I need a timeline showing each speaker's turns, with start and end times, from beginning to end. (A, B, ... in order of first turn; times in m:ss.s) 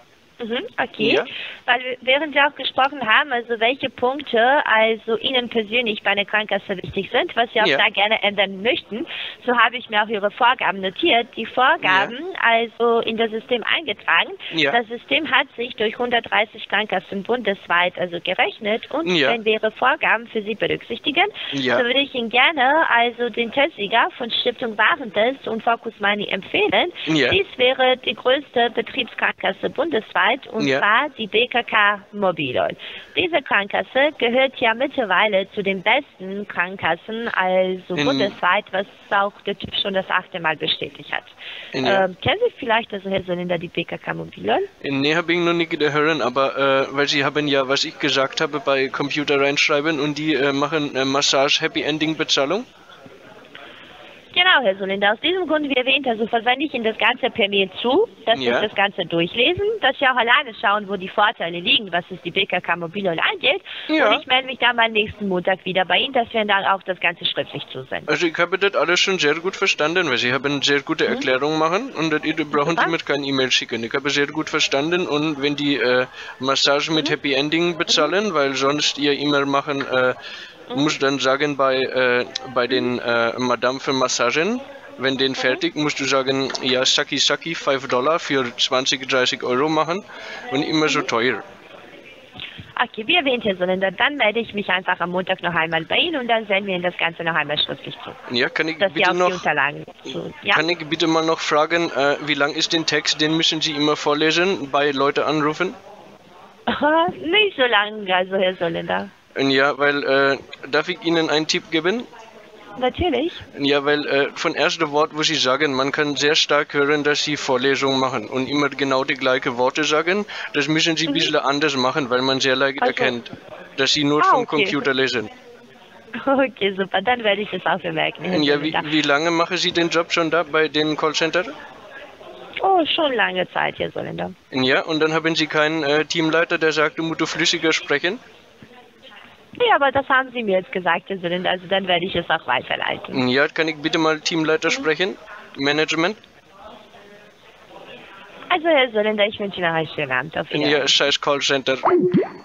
0:00.4-0:44.7 A
0:01.0-0:01.3 B
0:11.8-0:12.2 B
0:14.5-0:14.8 B
0:19.0-0:19.4 B
0:21.5-0:21.8 B
0:27.1-0:27.4 B
0:30.6-0:30.8 B
0:38.0-0:38.4 B
0:41.8-0:42.1 B
0:44.8-0:52.7 B
0:54.3-1:08.1 A
0:58.3-0:58.7 B
1:03.9-1:04.2 B
1:08.1-1:20.2 B
1:12.5-1:13.0 A
1:17.9-1:18.1 A
1:20.7-1:21.0 A
1:20.7-1:31.4 B
1:25.4-1:25.6 A
1:32.8-1:38.2 A
1:38.3-1:39.4 B
1:38.8-1:40.6 A
1:40.5-1:45.8 B
1:46.7-1:49.1 A
1:49.4-1:52.1 B
1:52.8-1:53.4 A
1:53.5-2:05.3 B
2:01.1-2:01.3 A
2:02.8-2:03.2 A
2:04.2-2:04.9 A
2:06.2-2:08.9 A
2:08.3-2:11.5 B
2:12.6-2:14.4 A
2:14.5-2:18.2 B
2:19.6-2:23.2 A
2:23.1-2:26.2 B
2:28.5-2:31.0 A
2:30.5-2:31.9 B